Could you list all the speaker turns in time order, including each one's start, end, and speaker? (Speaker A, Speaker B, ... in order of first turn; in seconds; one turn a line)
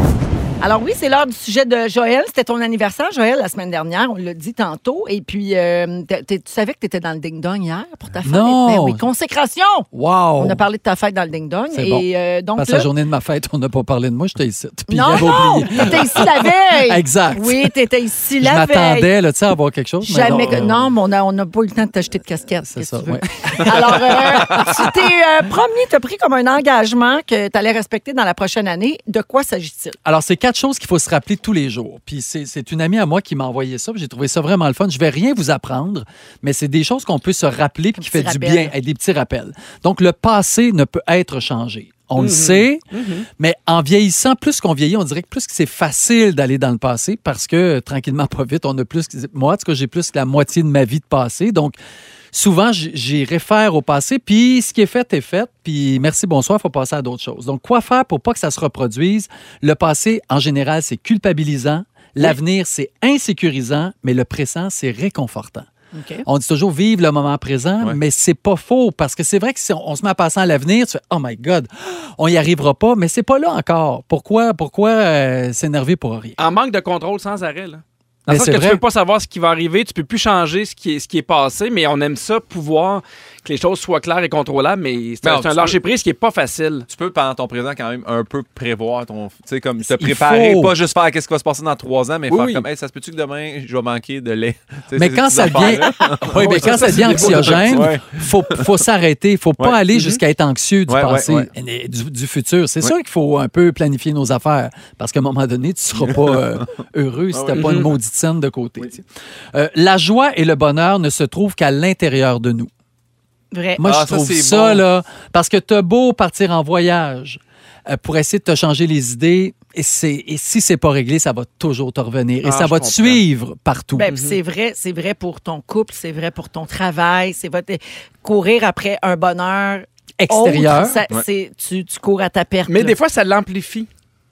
Speaker A: 0.6-12.9
Speaker B: 8.2-9.1
Speaker B: 9.9-10.6
Speaker B: 11.7-17.8
Speaker A: 14.9-19.1
Speaker B: 18.4-20.7
Speaker A: 20.0-30.0
Speaker B: 22.7-24.3
Speaker B: 30.1-42.8
Speaker A: 38.0-38.7
Speaker C: 42.2-43.3
Speaker B: 43.4-51.8
Speaker B: 52.3-65.7
Speaker A: 65.9-66.3
Speaker B: 66.2-76.4
Speaker C: 76.4-86.9
Speaker B: 78.3-78.8
Speaker D: 85.2-85.8
Speaker D: 86.9-98.6
Speaker B: 89.8-90.8
Speaker C: 92.3-92.7
Speaker B: 95.0-108.9
Speaker C: 96.4-97.9
Speaker C: 99.9-100.2
Speaker D: 100.9-101.5
Speaker D: 107.3-107.8
Speaker C: 107.5-107.9
Speaker B: 109.5-112.7
Speaker A: 113.5-113.8
Speaker B: 113.8-124.1
Speaker D: 113.8-114.8
Speaker C: 122.4-123.2
Speaker A: 123.9-132.9
Speaker C: 124.1-124.4
Speaker B: 130.2-131.0
Speaker C: 132.7-133.9